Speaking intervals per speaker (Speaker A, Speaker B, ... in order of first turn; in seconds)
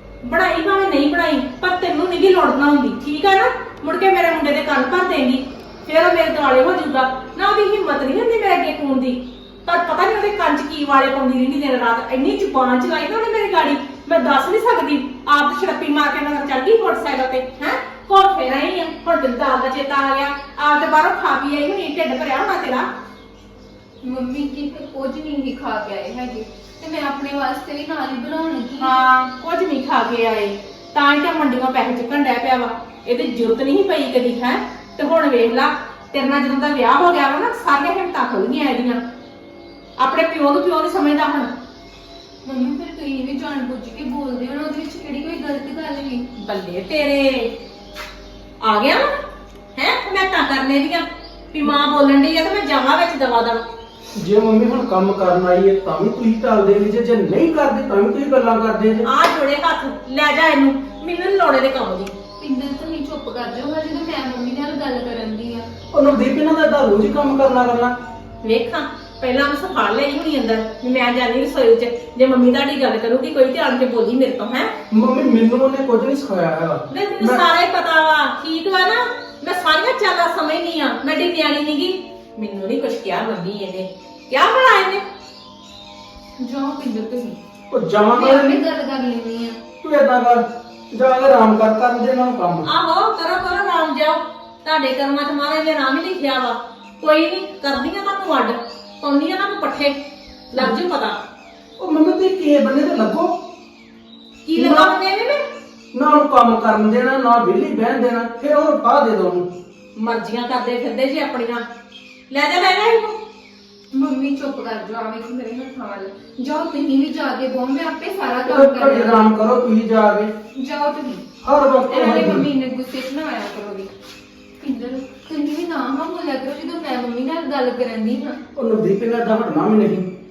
Speaker A: 0.2-22.9, 28.8-39.0, 40.0-41.5, 46.4-47.5, 48.6-49.1, 49.8-53.6, 59.0-62.1, 68.4-74.7, 76.9-85.0, 92.6-100.0, 100.5-101.2, 104.5-105.4, 110.0-111.7, 112.3-113.2
Speaker B: 24.0-29.0, 42.4-46.3, 62.4-65.7, 86.4-87.4, 88.1-89.6, 113.9-119.3, 120.5-121.2, 121.9-123.9, 124.6-128.4
Speaker C: 54.1-59.1, 65.9-68.0, 74.9-77.4, 87.7-88.6, 89.8-92.7, 101.8-103.4, 104.5-104.9, 105.9-109.5, 118.5-120.3, 121.4-122.5, 128.5-130.1